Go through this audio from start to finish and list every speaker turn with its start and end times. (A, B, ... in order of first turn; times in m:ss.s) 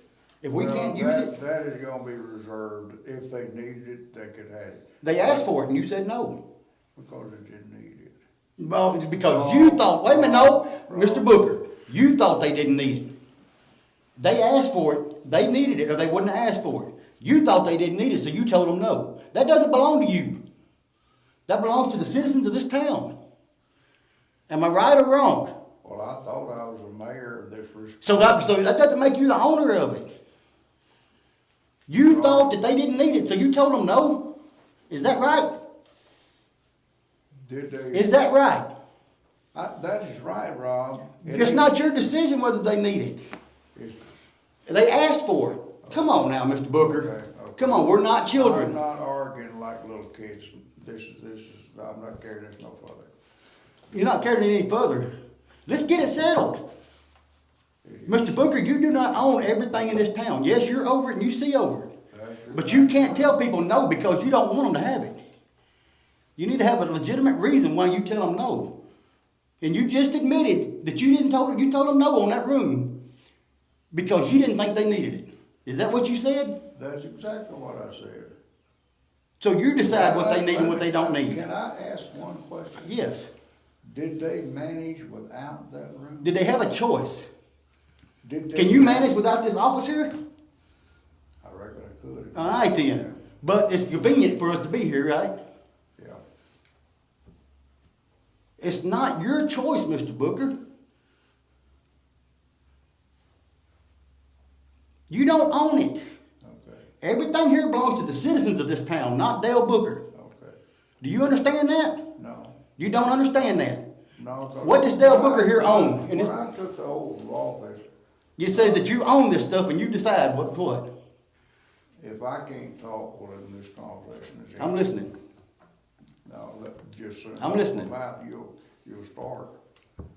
0:00.4-0:01.3 A
0:00.5-0:05.5 B
0:05.0-0:06.4 A
0:07.0-0:08.2 B
0:08.6-0:13.1 A
0:09.2-0:11.3 B
0:14.2-0:20.4 A
0:21.5-0:23.1 A
0:24.5-0:25.5 A
0:25.8-0:28.6 B
0:28.0-0:30.0 A
0:31.9-0:34.2 A
0:32.0-0:32.5 B
0:34.9-0:35.5 A
0:37.4-0:38.1 B
0:37.9-0:38.7 A
0:39.5-0:41.7 B
0:41.2-0:43.2 A
0:44.7-0:48.8 A
0:46.8-0:53.1 B
0:53.9-0:55.1 A
0:55.7-0:56.6 A
0:57.8-0:58.5 B
0:58.1-1:01.9 A
1:02.1-1:03.4 B
1:02.5-1:05.2 A
1:06.4-1:08.7 A
1:09.6-1:12.9 A
1:13.9-1:16.6 A
1:16.8-1:18.4 B
1:19.4-1:21.4 A
1:19.8-1:22.9 B
1:22.8-1:23.3 A
1:23.8-1:26.3 B
1:26.2-1:27.3 A
1:28.2-1:29.2 B
1:28.5-1:30.1 A
1:31.4-1:33.2 B
1:32.4-1:35.3 A
1:38.6-1:40.5 A
1:45.1-1:46.0 A
1:46.4-1:46.9 B
1:47.0-1:50.0 A
1:50.1-1:50.6 B
1:51.0-1:52.0 A
1:52.2-1:52.6 B
1:52.8-1:53.8 A
1:54.2-1:57.9 B
1:54.6-1:56.3 A
1:58.4-2:00.9 A
1:58.5-1:58.9 B
2:02.0-2:05.0 B
2:04.6-2:05.1 A
2:06.2-2:09.6 B
2:07.4-2:07.9 A